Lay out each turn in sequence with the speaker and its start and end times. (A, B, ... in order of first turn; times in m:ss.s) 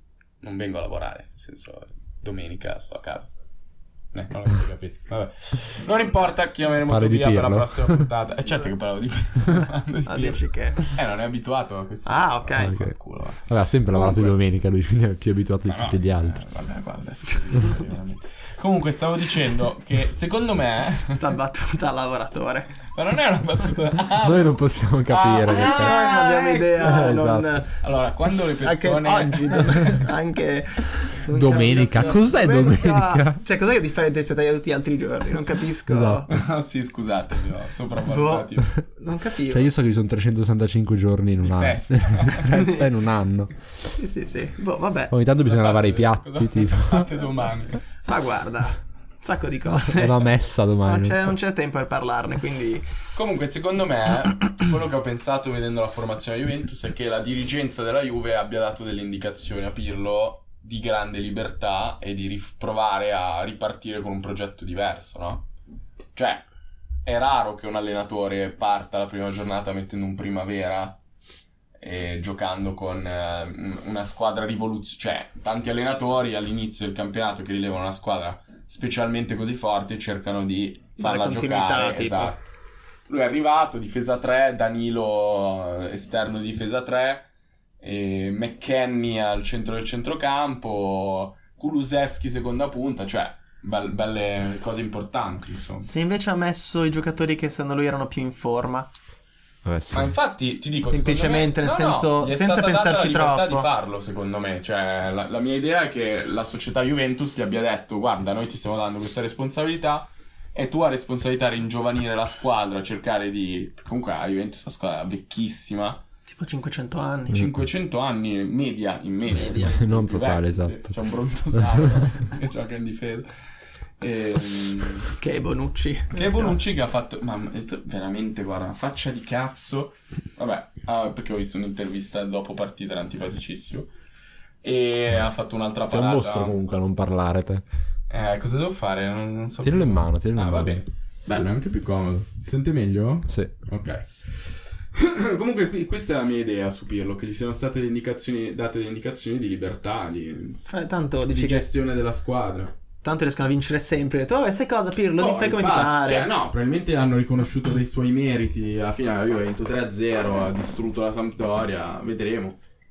0:00.4-0:03.3 A
0:04.1-0:14.3 A
0:06.8-0:08.1 B
0:10.0-0:10.9 C
0:12.0-0:12.8 C
0:12.6-0:12.9 B
0:13.5-0:16.4 B
0:15.7-0:21.2 A
0:21.1-0:22.8 C
0:22.9-0:27.2 A
0:24.2-0:26.0 B
0:25.3-0:27.7 C
0:26.8-0:27.5 B
0:27.7-0:30.1 A
0:28.6-0:36.3 C
0:31.3-0:33.4 B
0:35.9-0:36.3 B
0:36.3-0:38.7 A
0:38.0-0:39.7 C
0:39.5-0:43.5 B
0:41.4-0:42.6 A
0:42.5-0:42.9 C
0:43.9-0:45.1 C
0:45.1-0:47.1 B
0:45.4-0:47.8 A
0:48.0-0:52.9 C
0:49.9-0:51.3 B
0:53.1-1:05.4 A
1:06.1-1:06.4 A
1:07.0-1:11.0 A
1:11.8-1:22.4 A
1:21.0-1:22.3 C
1:23.1-1:27.3 A
1:27.8-1:35.9 A
1:35.8-1:38.9 C
1:39.6-1:40.1 B
1:39.9-1:56.0 A
1:40.8-1:43.7 C
1:56.2-1:57.4 C
1:57.3-2:03.3 A
1:59.4-1:59.7 C
1:59.5-2:00.9 B
2:04.0-2:05.1 A
2:05.2-2:06.6 C
2:06.1-2:13.9 A
2:14.6-2:16.6 A
2:15.9-2:17.6 B
2:18.1-2:30.6 A
2:19.6-2:20.8 B
2:30.6-2:31.7 C
2:31.3-2:32.7 A
2:33.0-2:36.3 C
2:35.2-2:42.6 A